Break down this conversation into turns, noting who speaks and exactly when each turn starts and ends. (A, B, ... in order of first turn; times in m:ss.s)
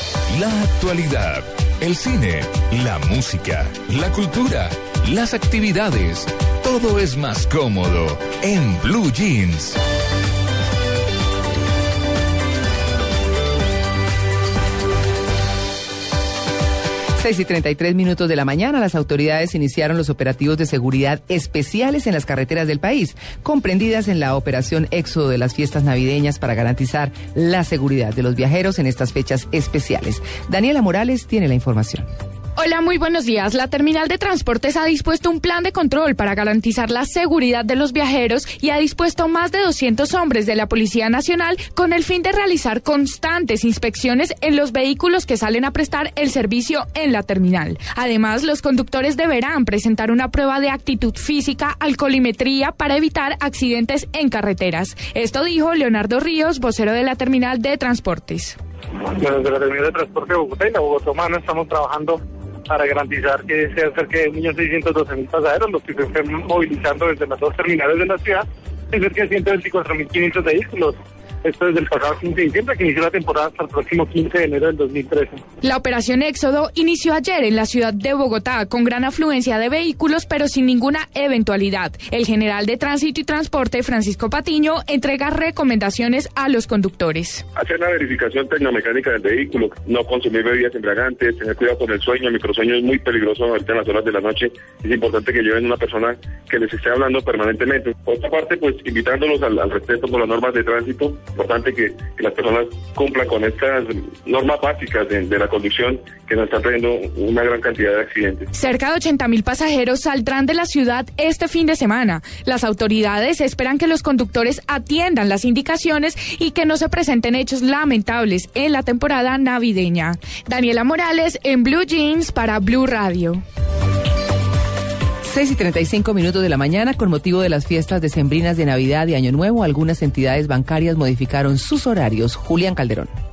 0:00.3-0:09.8 A
0:17.2-0:32.0 B
0:32.6-0:58.6 C
0:59.2-1:15.4 D
1:15.6-1:27.4 C
1:27.6-1:48.5 E
1:48.5-2:03.4 C
2:05.2-2:13.1 B